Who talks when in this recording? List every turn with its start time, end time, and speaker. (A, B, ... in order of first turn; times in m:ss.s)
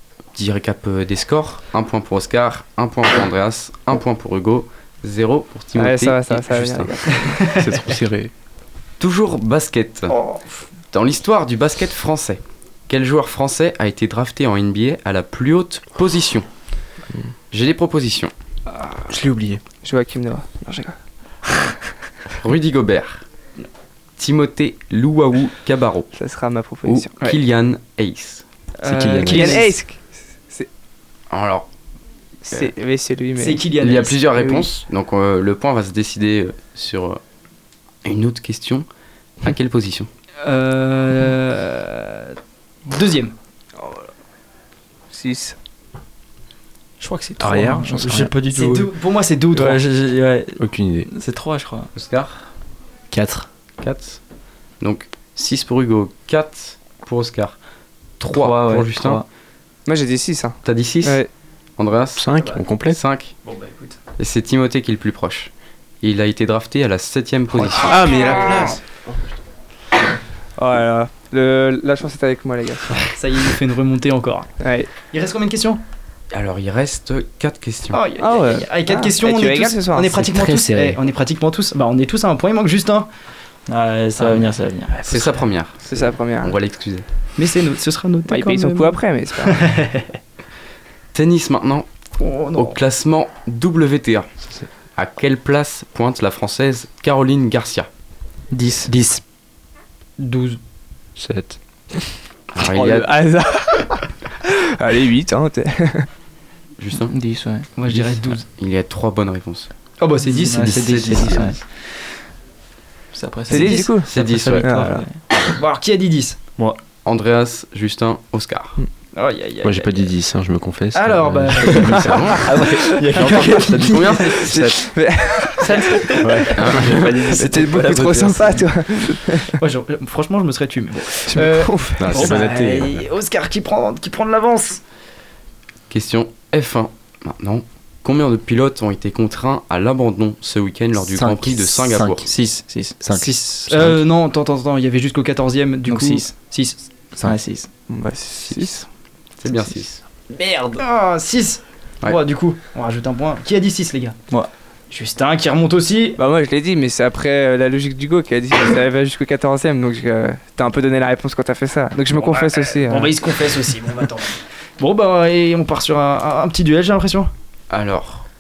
0:00.3-0:07.2 A
0:05.8-0:07.6 B
0:07.1-0:07.5 C
0:07.5-0:08.3 D
0:09.0-0:10.2 A
0:10.9-0:16.5 A
0:17.5-0:18.3 A
0:19.1-0:19.6 D
0:19.8-0:21.0 B
0:22.4-0:23.3 A
0:24.2-0:26.2 A
0:26.2-0:27.1 B
0:26.8-0:28.4 A
0:28.8-0:29.7 C
0:28.8-0:29.7 D
0:29.3-0:30.7 B
0:31.3-0:31.7 A
0:32.5-0:33.6 B
0:33.4-0:34.6 C
0:33.8-0:37.2 A
0:38.0-0:38.9 A
0:39.4-0:40.1 A
0:40.4-0:42.3 C
0:42.9-0:43.3 C
0:45.1-0:45.6 B
0:47.0-0:48.9 E
0:47.4-0:48.3 D
0:48.5-0:49.8 C
0:49.5-0:51.9 E
0:50.6-0:51.1 D
0:52.0-0:52.5 A
0:53.1-0:53.5 F
0:53.8-0:54.2 A
0:54.8-0:57.6 A
0:58.2-0:59.2 A
0:58.3-0:59.3 E
0:59.9-1:01.3 B
1:00.6-1:01.2 A
1:01.8-1:02.2 A
1:02.2-1:03.0 D
1:02.9-1:03.4 A
1:03.4-1:04.0 C
1:04.2-1:08.0 A
1:07.8-1:08.8 D
1:10.6-1:13.1 B
1:13.1-1:15.8 C
1:14.6-1:14.9 B
1:16.3-1:18.0 A
1:17.9-1:23.1 C
1:18.2-1:20.2 B
1:20.1-1:21.0 F
1:23.7-1:25.0 E
1:25.0-1:25.3 C
1:25.1-1:27.0 A
1:25.8-1:26.6 B
1:27.4-1:30.1 C
1:28.3-1:29.7 B
1:31.1-1:31.9 A
1:32.2-1:32.8 C
1:32.5-1:34.4 A
1:35.0-1:37.9 A
1:38.5-1:39.2 E
1:40.2-1:40.6 C
1:41.2-1:41.6 D
1:42.6-1:43.1 A
1:42.7-1:46.1 B
1:46.8-1:47.2 A
1:47.1-1:47.7 E
1:47.8-1:48.4 C
1:47.8-1:49.7 A
1:50.0-1:51.4 C
1:50.2-1:51.7 E
1:50.7-1:51.6 A
1:53.1-1:55.2 E
1:53.5-1:53.9 C
1:53.5-1:55.1 B
1:54.1-1:54.8 A
1:55.6-1:56.4 C
1:57.0-1:58.8 A
1:59.1-2:00.0 C
1:59.6-2:02.3 D
2:00.9-2:02.6 C
2:01.9-2:02.5 A
2:02.5-2:04.5 E
2:02.7-2:06.5 B
2:03.2-2:04.2 C
2:03.8-2:04.8 D
2:03.9-2:04.6 A
2:05.6-2:08.7 E
2:06.2-2:07.2 D
2:06.6-2:07.4 A
2:07.3-2:09.6 B
2:09.6-2:14.8 C
2:11.3-2:12.3 B
2:12.0-2:13.1 D
2:15.9-2:22.3 A
2:21.1-2:22.4 F
2:22.3-2:23.0 E
2:23.0-2:24.0 F
2:23.1-2:26.9 C
2:25.8-2:26.3 E
2:27.1-2:28.8 E
2:27.9-2:28.8 B
2:29.4-2:30.0 A
2:30.8-2:34.2 C
2:34.9-2:36.2 C
2:36.2-2:43.1 B
2:42.0-2:47.3 C
2:47.7-2:48.3 A